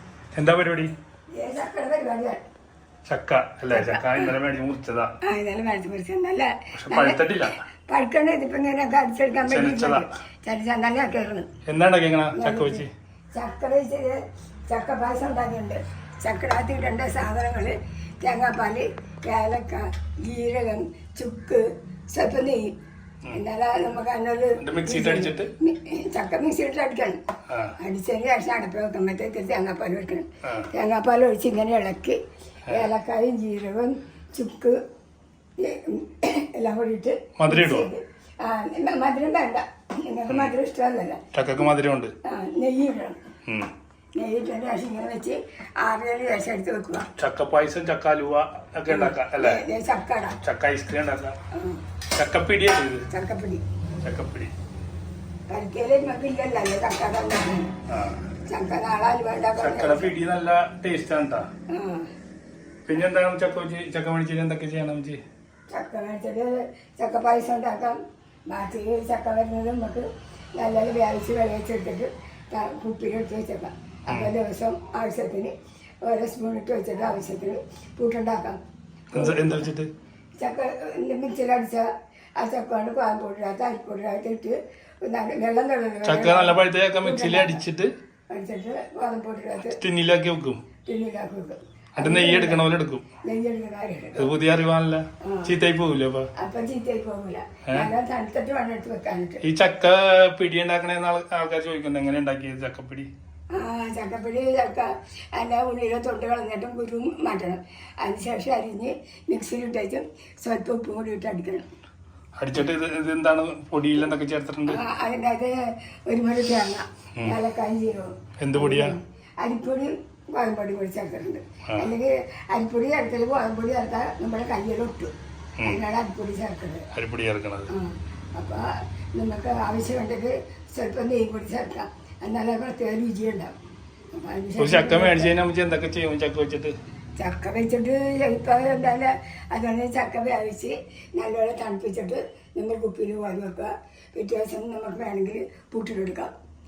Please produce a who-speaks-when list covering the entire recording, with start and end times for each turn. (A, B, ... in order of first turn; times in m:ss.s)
0:00.4-0:00.9 A
0:01.3-0:02.4 B
0:03.1-0:05.1 A
0:03.7-0:04.4 B
0:05.2-0:11.5 B
0:06.8-0:07.6 A
0:09.4-0:10.1 A
0:11.7-0:12.9 A
0:12.3-0:22.7 B
0:23.3-0:27.2 B
0:24.6-0:25.5 A
0:27.5-0:27.7 A
0:27.8-0:34.8 B
0:35.6-0:41.2 B
0:37.4-0:37.9 A
0:41.3-0:42.1 A
0:42.2-0:43.2 B
0:44.2-0:47.1 B
0:47.2-0:49.6 A
0:48.9-0:50.4 B
0:50.4-0:51.4 A
0:51.5-0:51.8 B
0:52.1-0:53.0 A
0:53.1-0:53.6 B
0:54.0-0:54.5 A
0:55.5-0:57.7 B
0:57.9-0:58.2 A
0:58.5-1:00.1 B
0:59.6-1:01.5 A
1:01.7-1:02.1 B
1:02.9-1:05.2 A
1:05.7-1:15.5 B
1:14.1-1:14.3 A
1:16.0-1:18.6 B
1:19.1-1:19.7 B
1:19.1-1:19.9 A
1:20.4-1:27.6 B
1:26.0-1:27.9 A
1:28.3-1:29.8 B
1:29.6-1:30.6 A
1:30.8-1:32.6 B
1:32.0-1:33.0 A
1:33.2-1:34.3 B
1:34.2-1:36.3 A
1:35.2-1:35.5 B
1:36.4-1:39.4 B
1:39.4-1:43.1 A
1:43.5-1:51.7 B
1:52.4-1:54.8 A
1:54.7-2:05.1 B
1:58.4-1:59.0 A
2:05.6-2:06.9 B
2:06.9-2:07.7 A
2:07.7-2:13.6 B
2:14.2-2:15.3 B
2:14.6-2:16.8 A
2:17.2-2:26.3 B